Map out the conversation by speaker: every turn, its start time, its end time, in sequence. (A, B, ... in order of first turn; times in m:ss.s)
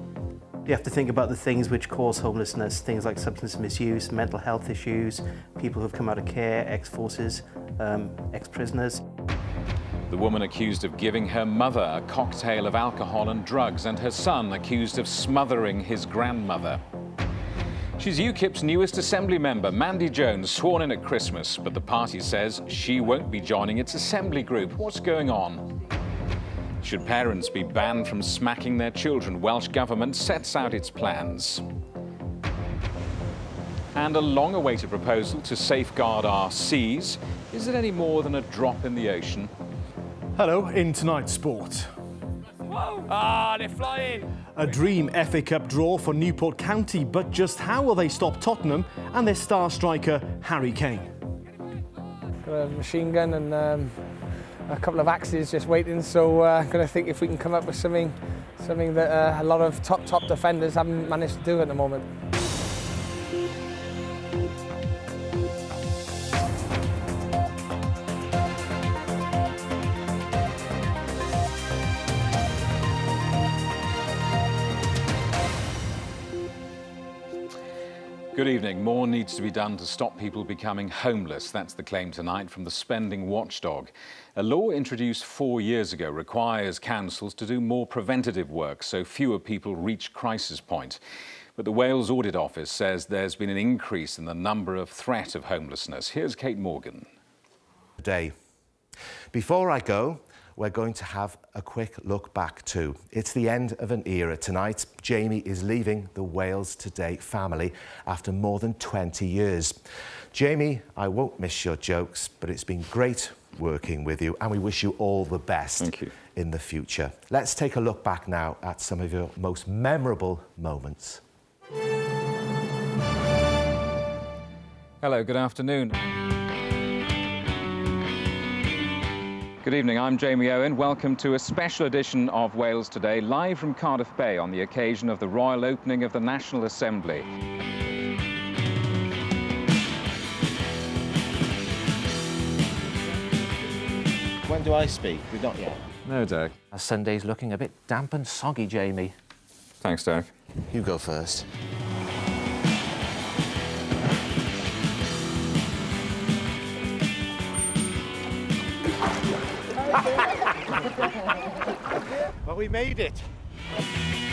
0:00.6-0:09.0 A
0:10.1-0:16.8 B
0:18.0-0:25.6 B
0:26.8-0:31.6 B
0:33.9-0:39.5 B
0:40.4-0:41.9 C
0:42.7-0:44.3 B
0:44.5-0:51.1 C
0:52.4-0:54.0 D
0:54.7-1:02.1 D
1:18.3-1:31.0 B
1:31.6-1:37.1 B
1:38.0-1:38.3 E
1:39.3-1:49.8 E
1:50.3-2:01.2 E
1:55.8-1:56.1 B
2:05.0-2:06.0 B
2:09.6-2:17.2 B
2:24.5-2:25.5 E
2:24.5-2:25.8 F
2:26.0-2:26.6 B
2:26.7-2:29.1 F
2:29.8-2:30.3 B
2:30.7-2:31.4 E
2:42.5-2:43.2 E